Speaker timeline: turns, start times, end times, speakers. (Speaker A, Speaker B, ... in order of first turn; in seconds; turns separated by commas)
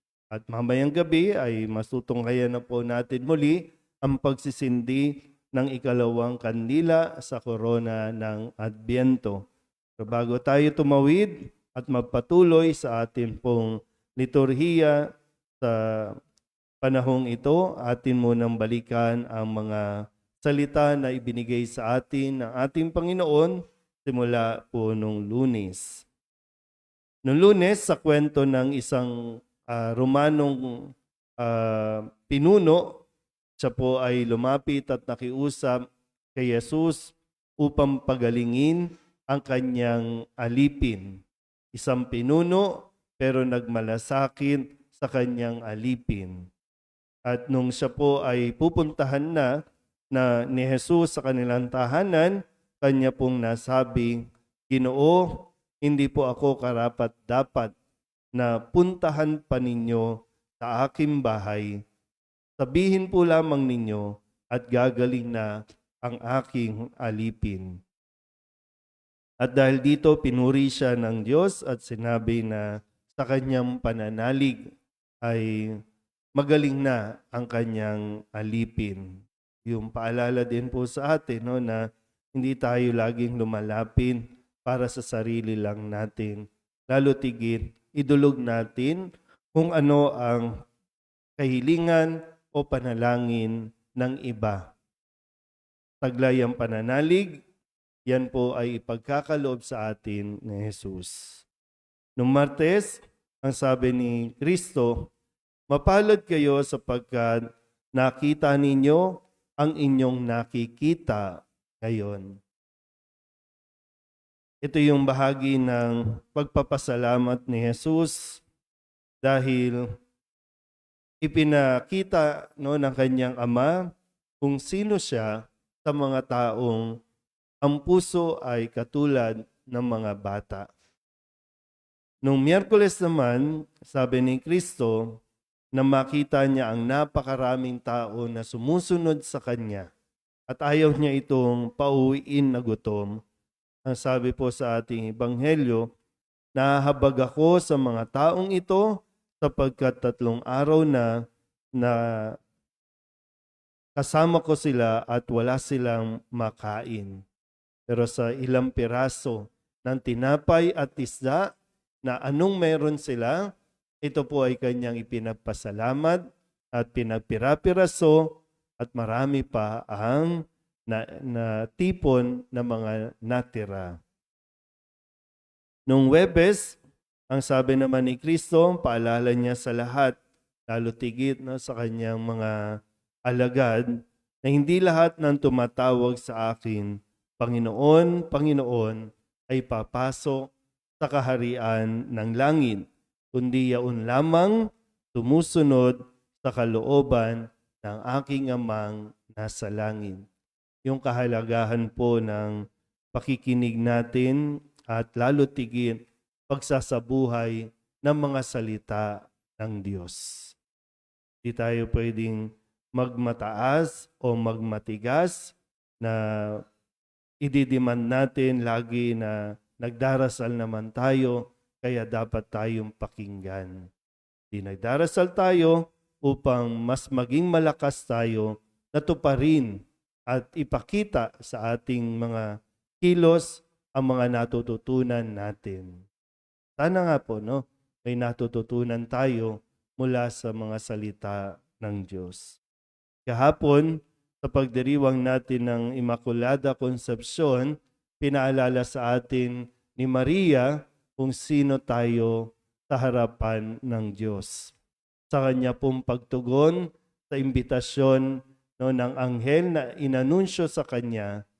Speaker A: 0.3-9.4, Speaker A: 10.0-15.0, Speaker A: 15.6-16.2, Speaker A: 16.8-19.8, Speaker A: 20.4-26.0, Speaker A: 27.2-29.1, Speaker A: 29.6-30.7, Speaker A: 31.4-32.8, Speaker A: 33.6-35.8, Speaker A: 36.4-41.2, Speaker A: 41.7-46.5, Speaker A: 47.3-49.5, Speaker A: 50.1-54.2, Speaker A: 54.7-57.7, Speaker A: 58.4-61.7, Speaker A: 62.6-65.5, Speaker A: 66.0-67.7, Speaker A: 69.4-74.7, Speaker A: 75.2-75.8, Speaker A: 76.4-79.1, Speaker A: 79.7-81.8, Speaker A: 82.3-89.0, Speaker A: 89.5-90.5, Speaker A: 91.4-94.7, Speaker A: 96.0-97.3, Speaker A: 98.1-101.4, Speaker A: 102.2-105.1, Speaker A: 105.7-107.4, Speaker A: 108.0-109.0, Speaker A: 109.6-112.3, Speaker A: 114.6-118.4, Speaker A: 119.2-119.8, Speaker A: 121.2-123.8, Speaker A: 124.4-125.3, Speaker A: 125.9-126.9, Speaker A: 127.6-130.7, Speaker A: 132.2-135.2, Speaker A: 135.8-139.9, Speaker A: 140.5-143.2, Speaker A: 143.9-145.8, Speaker A: 146.6-151.1, Speaker A: 151.8-152.4, Speaker A: 154.0-157.2, Speaker A: 157.9-161.5, Speaker A: 162.1-163.4, Speaker A: 164.0-166.2, Speaker A: 166.8-174.0, Speaker A: 175.9-176.8, Speaker A: 177.3-180.2, Speaker A: 180.7-182.5, Speaker A: 183.3-183.9, Speaker A: 184.4-194.6, Speaker A: 195.1-200.2, Speaker A: 200.8-202.6, Speaker A: 203.1-206.0, Speaker A: 206.5-210.6, Speaker A: 211.4-212.4, Speaker A: 213.0-216.6, Speaker A: 217.4-223.8, Speaker A: 224.5-229.7, Speaker A: 230.3-232.4, Speaker A: 233.0-236.0, Speaker A: 236.8-242.6, Speaker A: 243.3-243.9, Speaker A: 244.4-254.7, Speaker A: 255.3-261.3